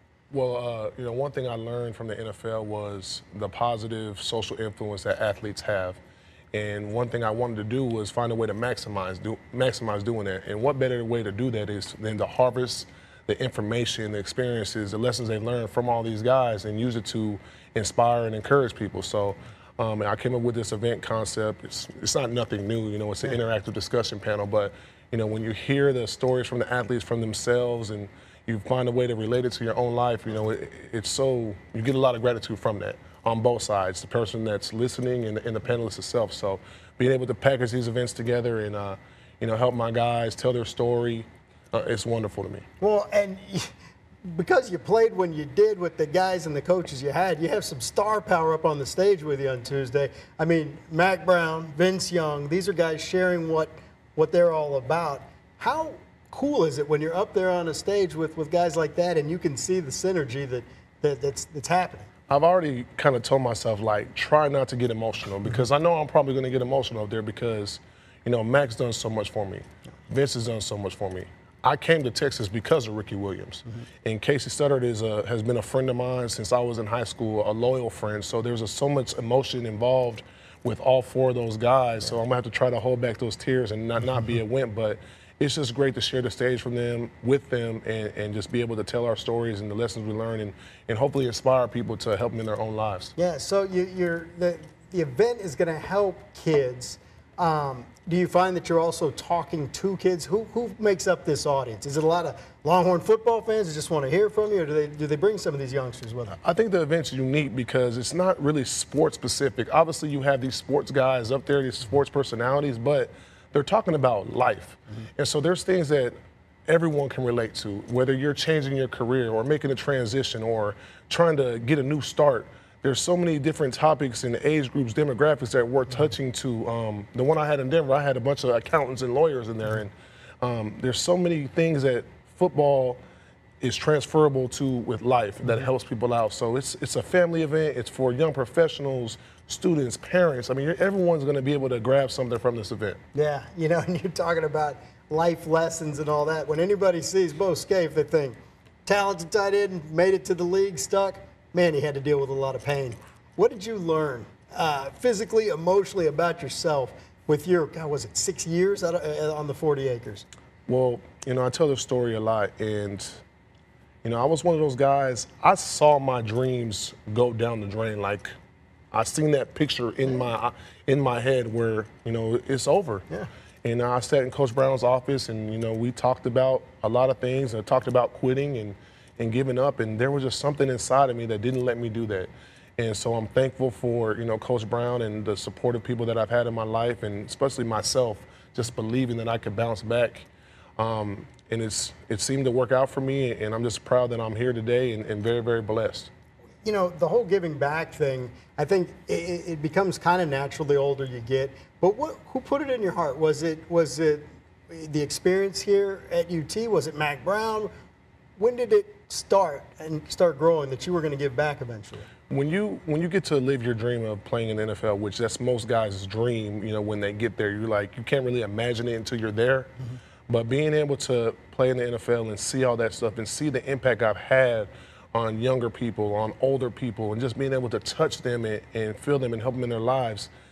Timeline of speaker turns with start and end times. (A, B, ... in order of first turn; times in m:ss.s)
0:00.3-0:06.0 A
0:06.5-0:42.6 A
0:42.8-0:43.7 B
0:44.3-1:02.1 B
1:02.3-1:33.1 A
1:33.2-1:46.4 B
1:46.4-1:56.1 A
1:56.7-2:13.0 A
2:13.6-2:23.0 A
2:23.1-2:40.2 B
2:40.7-2:43.2 A
2:44.0-2:48.3 A
2:48.9-2:53.0 A
2:53.6-3:16.1 A
3:16.6-3:27.7 B
3:28.4-3:32.1 B
3:32.3-3:39.7 A
3:40.3-3:50.3 A